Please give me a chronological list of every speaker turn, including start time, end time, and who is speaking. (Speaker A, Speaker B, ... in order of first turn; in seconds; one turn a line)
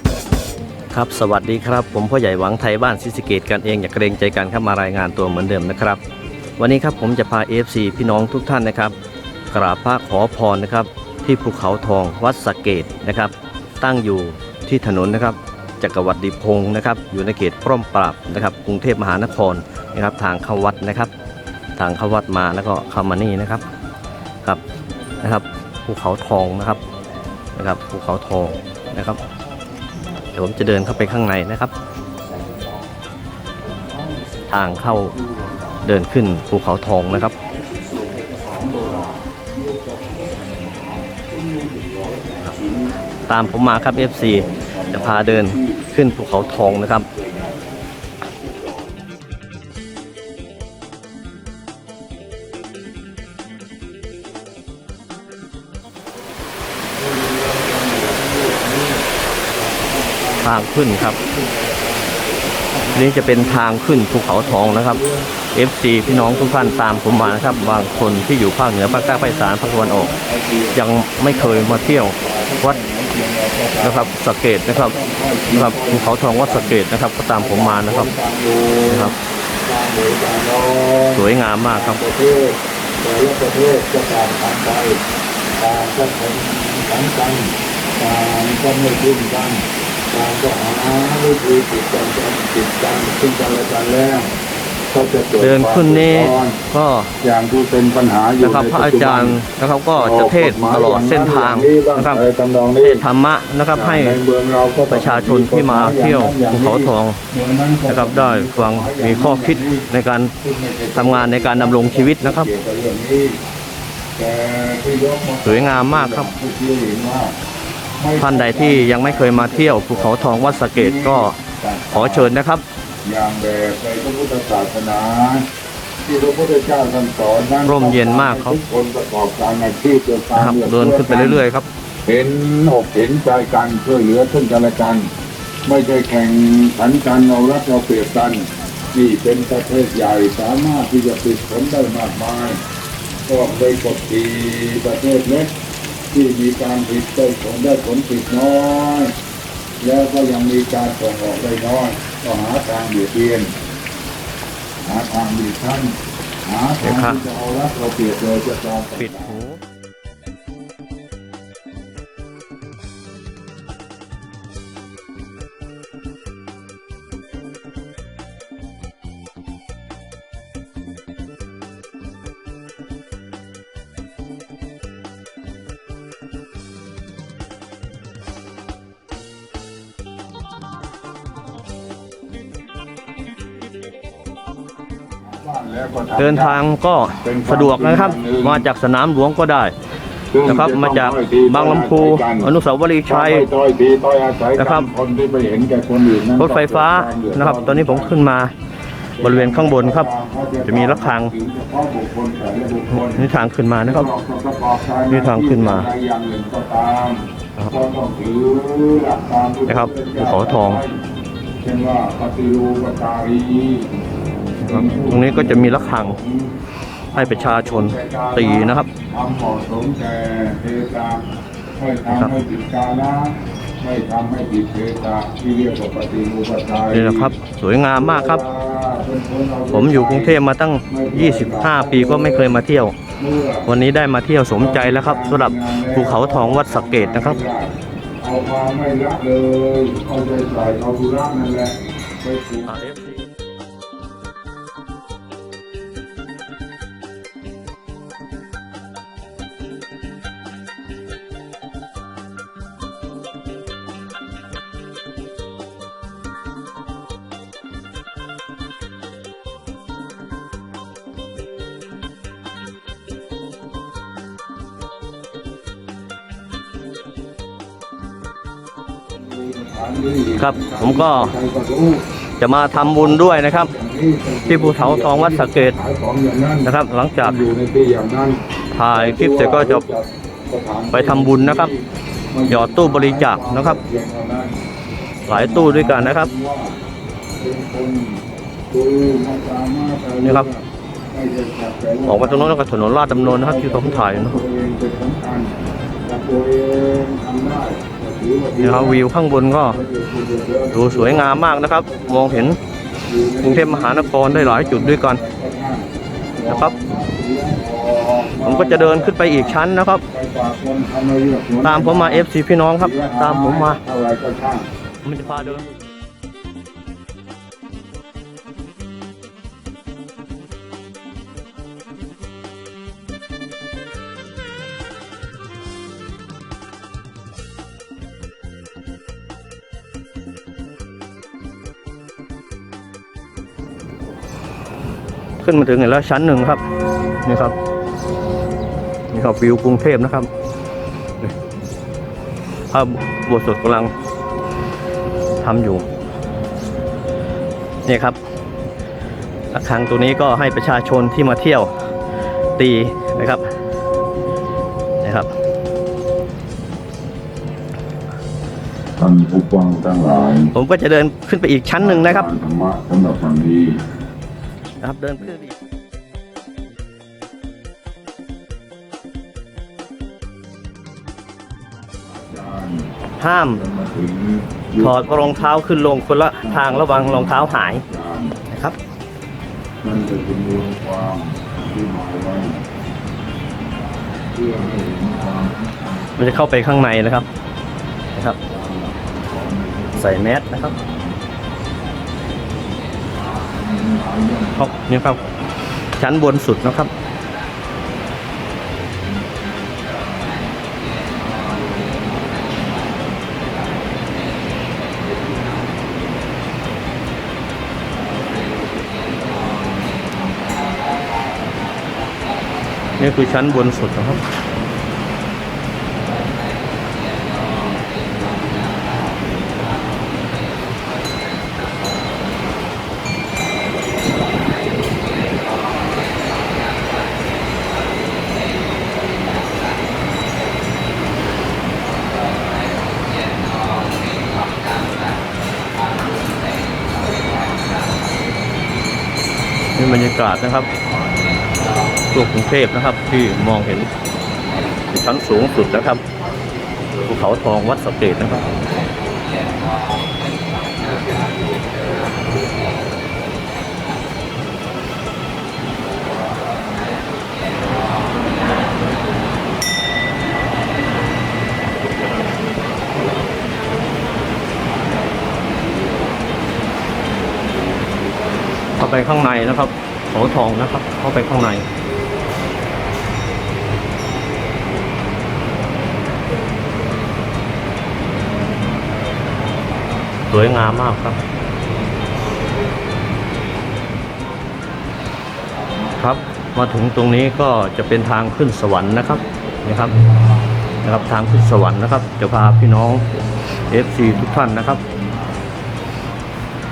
Speaker A: 0.9-6.0
Speaker A: 6.6-8.9
Speaker A: 9.5-21.1
Speaker A: 21.8-23.6
Speaker A: 25.2-26.8
Speaker A: 27.6-29.2
Speaker A: 30.3-31.7
Speaker B: 33.8-34.4
Speaker A: 34.5-35.1
Speaker B: 35.1-35.8
Speaker A: 35.9-37.3
Speaker B: 37.2-42.9
Speaker A: 43.3-47.1
Speaker B: 43.5-47.7
Speaker B: 57.0-65.3
Speaker A: 60.4-61.2
Speaker A: 63.0-65.0
Speaker A: 65.5-70.1
Speaker B: 66.0-74.1
Speaker A: 70.7-72.8
Speaker A: 73.8-74.9
Speaker B: 74.7-76.8
Speaker A: 75.5-78.1
Speaker B: 77.3-79.1
Speaker A: 78.9-79.2
Speaker B: 79.7-85.0
Speaker A: 81.2-82.0
Speaker B: 85.6-94.3
Speaker B: 94.9-96.6
Speaker A: 95.4-97.1
Speaker B: 97.2-99.4
Speaker A: 98.4-102.2
Speaker B: 100.0-103.0
Speaker A: 102.8-104.2
Speaker B: 103.7-109.9
Speaker A: 104.9-107.2
Speaker A: 107.9-110.3
Speaker B: 110.4-113.4
Speaker A: 111.0-112.5
Speaker B: 114.2-117.3
Speaker A: 115.4-116.3
Speaker B: 118.0-122.3
Speaker A: 118.2-121.4
Speaker A: 121.9-122.6
Speaker B: 123.0-125.5
Speaker B: 126.1-131.4
Speaker A: 127.7-128.6
Speaker A: 130.3-131.7
Speaker B: 132.1-135.1
Speaker B: 135.7-142.6
Speaker B: 143.3-145.5
Speaker B: 146.1-149.1
Speaker B: 149.8-153.5
Speaker B: 154.8-155.9
Speaker B: 156.5-159.4
Speaker A: 156.8-157.2
Speaker A: 159.0-159.6
Speaker B: 185.3-186.6
Speaker A: 186.2-189.7
Speaker B: 187.2-188.7
Speaker B: 190.3-192.5
Speaker A: 190.4-193.5
Speaker B: 193.1-198.2
Speaker A: 194.6-194.9
Speaker A: 196.4-198.5
Speaker B: 199.2-203.3
Speaker A: 199.2-200.1
Speaker A: 200.7-201.3
Speaker A: 202.9-204.1
Speaker B: 203.8-211.0
Speaker A: 205.1-205.9
Speaker A: 209.7-210.8
Speaker B: 211.6-213.9
Speaker A: 214.6-216.2
Speaker B: 214.6-216.6
Speaker B: 217.1-221.3
Speaker A: 217.2-218.9
Speaker B: 221.8-227.3
Speaker A: 222.1-222.3
Speaker A: 226.9-228.4
Speaker B: 227.9-230.4
Speaker A: 229.7-232.9
Speaker B: 230.9-232.6
Speaker B: 233.2-233.7
Speaker A: 233.7-237.4
Speaker B: 234.6-242.8
Speaker A: 242.7-243.2
Speaker B: 269.3-272.0
Speaker A: 270.4-271.3
Speaker A: 272.4-273.7
Speaker B: 272.7-278.4
Speaker A: 274.5-275.8
Speaker A: 276.6-277.5
Speaker A: 278.8-279.9
Speaker B: 278.9-284.6
Speaker A: 280.9-281.7
Speaker A: 282.5-283.8
Speaker A: 285.3-286.3
Speaker B: 285.3-286.8
Speaker B: 287.4-295.5
Speaker A: 292.1-294.4
Speaker B: 296.1-299.1
Speaker A: 298.6-299.8
Speaker B: 299.6-302.6
Speaker A: 300.7-302.6
Speaker B: 303.1-312.3
Speaker A: 303.4-305.2
Speaker A: 306.5-306.7
Speaker A: 308.4-310.0
Speaker A: 311.6-313.8
Speaker B: 312.8-314.7
Speaker A: 315.0-315.6
Speaker B: 315.2-315.7
Speaker A: 335.4-336.6
Speaker A: 337.2-337.6
Speaker A: 339.1-340.3
Speaker A: 342.7-343.9
Speaker A: 345.4-345.8
Speaker A: 347.9-348.2
Speaker A: 349.5-351.7
Speaker A: 352.6-353.4
Speaker A: 355.0-355.3
Speaker B: 359.0-360.5
Speaker A: 360.5-362.3
Speaker B: 361.8-363.8
Speaker A: 364.8-365.5
Speaker B: 372.1-372.9
Speaker A: 373.2-373.6
Speaker B: 373.6-375.6
Speaker A: 374.8-377.8
Speaker B: 376.4-378.4
Speaker A: 378.5-378.8
Speaker B: 379.8-382.6
Speaker B: 384.3-386.1
Speaker A: 386.2-387.3
Speaker B: 388.5-391.2
Speaker A: 390.0-390.7
Speaker B: 393.3-395.1
Speaker A: 394.6-395.2
Speaker A: 396.0-396.9
Speaker B: 399.3-400.4
Speaker B: 401.3-402.9
Speaker B: 408.8-411.0
Speaker A: 413.0-414.2
Speaker B: 417.9-419.1
Speaker A: 439.8-440.7
Speaker B: 441.1-441.7
Speaker A: 442.1-443.9
Speaker A: 444.9-446.0
Speaker A: 447.1-448.5
Speaker B: 450.8-452.2
Speaker B: 455.9-456.9
Speaker B: 464.7-466.4
Speaker B: 467.4-468.3
Speaker A: 468.8-471.6
Speaker A: 480.3-481.2
Speaker A: 486.0-489.9
Speaker A: 490.8-493.0
Speaker A: 493.7-494.8
Speaker B: 494.1-495.4